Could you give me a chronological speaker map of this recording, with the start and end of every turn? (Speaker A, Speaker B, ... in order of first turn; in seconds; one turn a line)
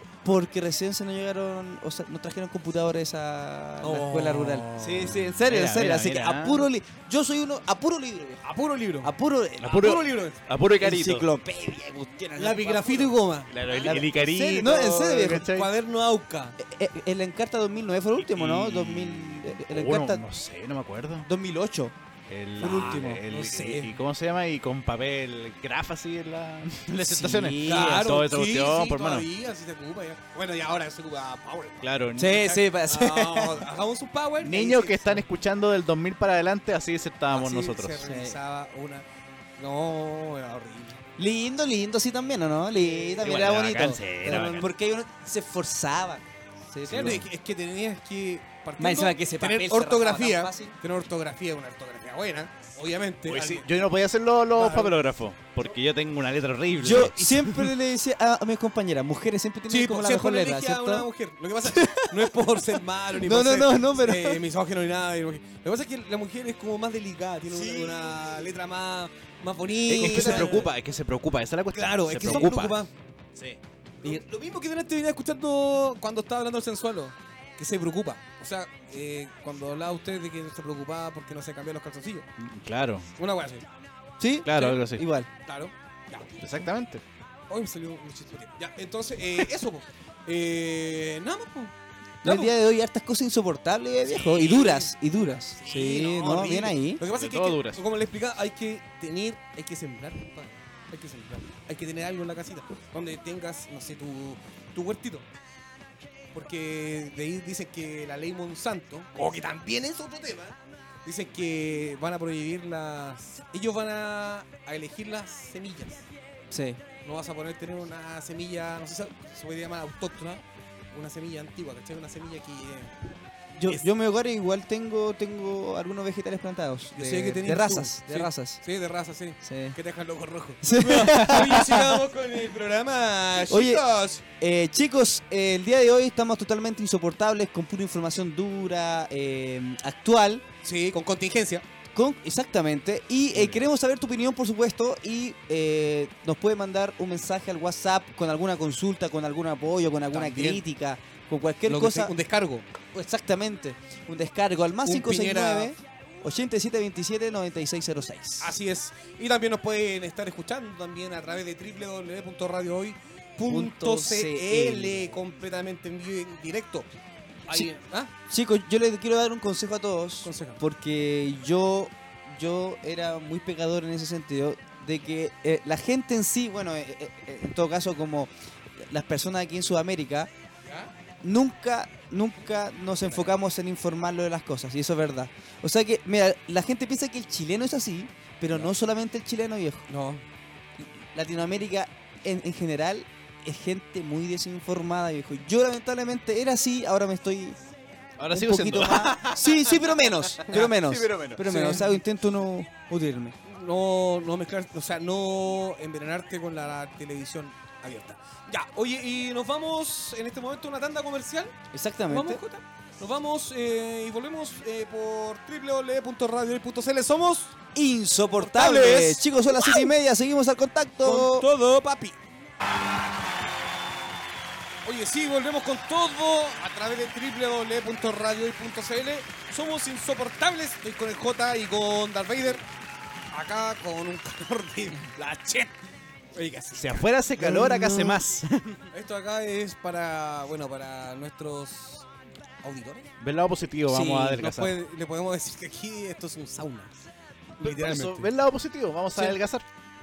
Speaker A: 0.2-8.4
Speaker B: 3.8-5.2
Speaker C: 5.0-6.7
Speaker B: 8.4-10.4
Speaker A: 9.0-9.9
Speaker C: 9.6-11.3
Speaker A: 10.8-13.2
Speaker B: 12.4-16.6
Speaker C: 13.5-15.7
Speaker A: 13.8-15.5
Speaker A: 16.6-20.2
Speaker C: 18.2-21.3
Speaker A: 21.3-21.9
Speaker C: 22.3-29.3
Speaker B: 22.6-23.9
Speaker A: 22.6-23.2
Speaker A: 27.0-28.0
Speaker B: 27.6-35.2
Speaker C: 31.8-32.6
Speaker A: 32.2-33.7
Speaker C: 34.4-38.0
Speaker B: 37.3-39.0
Speaker A: 38.0-38.4
Speaker B: 39.6-41.0
Speaker A: 41.2-47.2
Speaker B: 42.8-43.4
Speaker C: 43.2-44.7
Speaker C: 46.9-47.2
Speaker B: 46.9-53.7
Speaker A: 48.8-50.8
Speaker C: 53.3-57.7
Speaker B: 54.5-55.0
Speaker A: 56.8-61.1
Speaker B: 56.8-57.3
Speaker B: 59.7-70.7
Speaker A: 61.7-64.4
Speaker A: 67.5-68.3
Speaker C: 69.9-72.8
Speaker A: 69.9-70.6
Speaker B: 71.7-72.9
Speaker C: 73.3-73.6
Speaker B: 74.0-82.3
Speaker C: 82.4-83.1
Speaker B: 83.2-83.7
Speaker A: 84.2-85.3
Speaker C: 84.5-85.1
Speaker B: 84.5-84.8
Speaker B: 85.4-86.4
Speaker C: 86.4-87.0
Speaker B: 87.5-92.5
Speaker A: 92.2-97.0
Speaker B: 94.0-105.3
Speaker C: 97.0-97.8
Speaker B: 106.3-116.0
Speaker A: 116.5-116.8
Speaker B: 117.0-123.0
Speaker A: 123.6-128.6
Speaker B: 127.0-134.2
Speaker A: 129.4-129.8
Speaker A: 130.6-132.0
Speaker A: 133.4-140.4
Speaker B: 140.6-141.6
Speaker A: 141.9-152.1
Speaker C: 143.3-143.7
Speaker B: 150.1-150.6
Speaker B: 151.7-152.7
Speaker A: 152.9-158.5
Speaker B: 154.8-155.7
Speaker B: 158.4-166.9
Speaker A: 163.5-165.2
Speaker B: 167.5-168.1
Speaker A: 168.3-178.3
Speaker B: 170.2-170.6
Speaker A: 178.8-180.3
Speaker B: 180.7-180.9
Speaker A: 181.2-189.9
Speaker B: 183.0-183.4
Speaker B: 189.9-190.2
Speaker A: 190.8-197.6
Speaker C: 198.2-201.4
Speaker A: 198.3-203.3
Speaker B: 200.4-200.7
Speaker B: 201.4-202.0
Speaker B: 203.4-211.6
Speaker A: 211.7-212.4
Speaker B: 212.1-217.6
Speaker A: 217.7-221.5
Speaker B: 218.4-219.9
Speaker B: 221.0-222.2
Speaker B: 224.8-232.6
Speaker B: 233.3-235.8
Speaker B: 236.3-237.5
Speaker C: 236.8-238.9
Speaker A: 237.4-238.2
Speaker B: 238.9-242.1
Speaker B: 242.6-243.1
Speaker C: 243.2-244.8
Speaker B: 243.9-247.0
Speaker B: 247.6-248.3
Speaker C: 247.6-249.7